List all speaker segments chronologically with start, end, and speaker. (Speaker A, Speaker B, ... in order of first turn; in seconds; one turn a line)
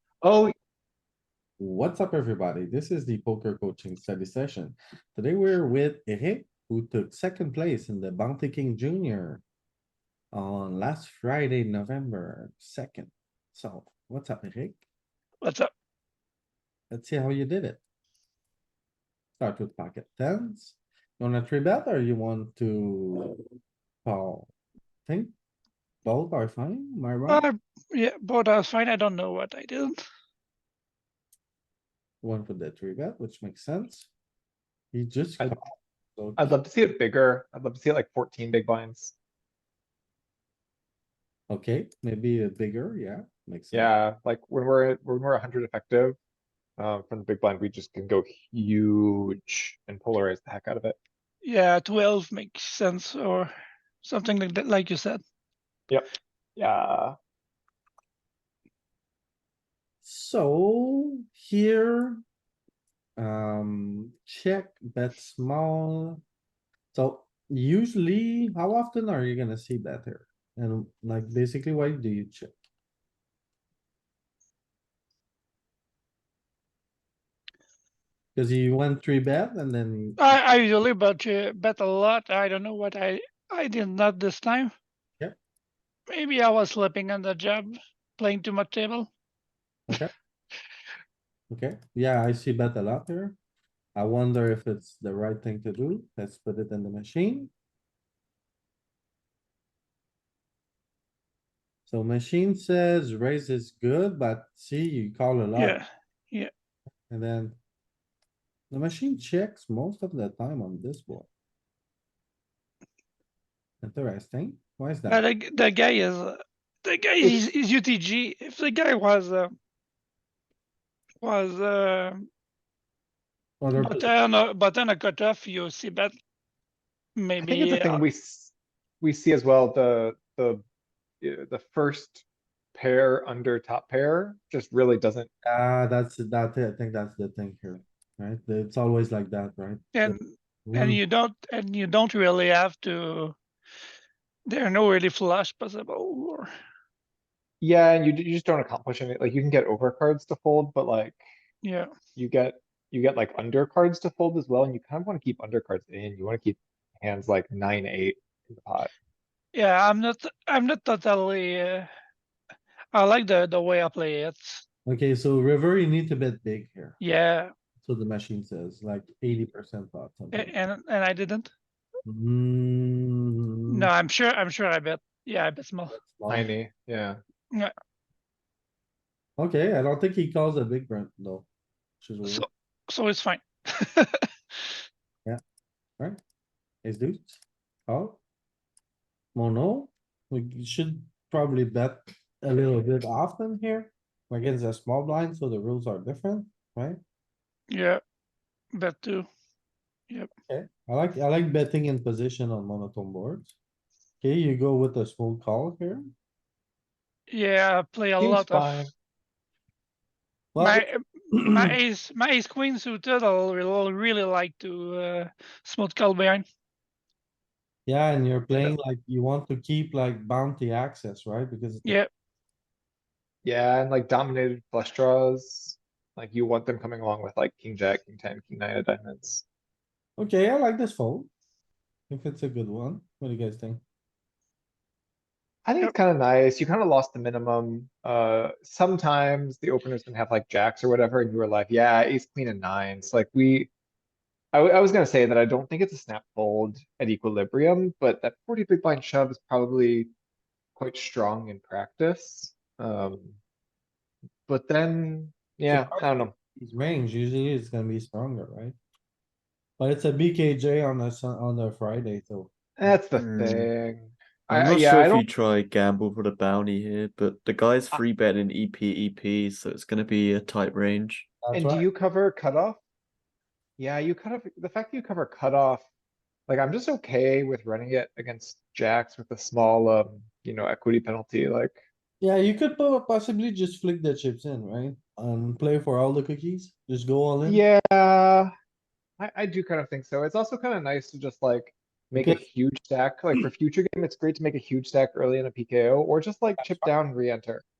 Speaker A: 0.2-0.5
Speaker B: 1.6-9.4
Speaker B: 10.3-14.8
Speaker C: 15.4-15.7
Speaker B: 16.9-17.8
Speaker B: 19.4-23.4
Speaker B: 24.0-24.5
Speaker B: 25.1-25.3
Speaker B: 26.0-27.4
Speaker C: 27.3-30.0
Speaker B: 32.2-34.1
Speaker B: 34.9-36.5
Speaker A: 36.4-39.1
Speaker B: 41.5-43.9
Speaker A: 43.7-46.2
Speaker A: 46.8-51.0
Speaker C: 51.4-53.5
Speaker C: 54.0-55.2
Speaker A: 56.6-57.1
Speaker B: 60.0-62.2
Speaker B: 63.2-66.2
Speaker B: 66.9-72.5
Speaker B: 78.3-80.2
Speaker C: 80.2-84.7
Speaker C: 86.1-89.1
Speaker B: 89.9-90.1
Speaker B: 91.5-93.4
Speaker B: 94.0-97.5
Speaker B: 101.9-105.8
Speaker C: 105.6-106.5
Speaker B: 107.1-107.6
Speaker B: 108.7-111.3
Speaker B: 113.8-115.2
Speaker C: 115.1-119.5
Speaker C: 121.2-122.2
Speaker B: 123.6-124.1
Speaker C: 123.8-126.1
Speaker C: 127.2-128.0
Speaker A: 127.4-130.6
Speaker A: 131.2-132.2
Speaker A: 132.7-135.3
Speaker B: 135.4-141.0
Speaker C: 139.9-143.3
Speaker C: 144.5-146.5
Speaker A: 147.6-151.2
Speaker C: 151.6-151.9
Speaker A: 152.1-158.9
Speaker C: 159.5-161.9
Speaker C: 162.9-164.6
Speaker B: 164.8-167.0
Speaker C: 167.0-167.5
Speaker B: 167.8-170.5
Speaker C: 170.3-171.5
Speaker B: 172.0-173.9
Speaker C: 173.7-175.9
Speaker B: 175.9-176.5
Speaker A: 176.3-177.2
Speaker B: 179.4-181.5
Speaker B: 182.0-182.4
Speaker C: 182.3-184.3
Speaker B: 186.8-188.2
Speaker B: 189.3-197.0
Speaker C: 197.7-198.0
Speaker C: 198.7-199.3
Speaker B: 200.5-203.5
Speaker B: 204.2-206.1
Speaker C: 207.3-208.9
Speaker A: 208.2-208.9
Speaker B: 210.5-211.8
Speaker C: 210.6-216.4
Speaker B: 217.8-222.0
Speaker C: 221.8-222.1
Speaker A: 223.4-229.4
Speaker B: 230.2-231.3
Speaker B: 232.1-233.8
Speaker A: 235.7-243.7
Speaker A: 244.5-250.1
Speaker A: 250.8-253.4
Speaker A: 254.5-256.3
Speaker B: 255.7-258.8
Speaker B: 259.8-262.9
Speaker A: 262.8-265.2
Speaker D: 263.1-263.7
Speaker D: 264.5-271.3
Speaker B: 271.4-271.9
Speaker A: 271.5-272.8
Speaker A: 273.8-275.8
Speaker A: 276.5-281.8
Speaker B: 282.2-287.6
Speaker A: 287.4-288.5
Speaker A: 289.2-297.6
Speaker B: 292.2-292.4
Speaker B: 296.6-296.9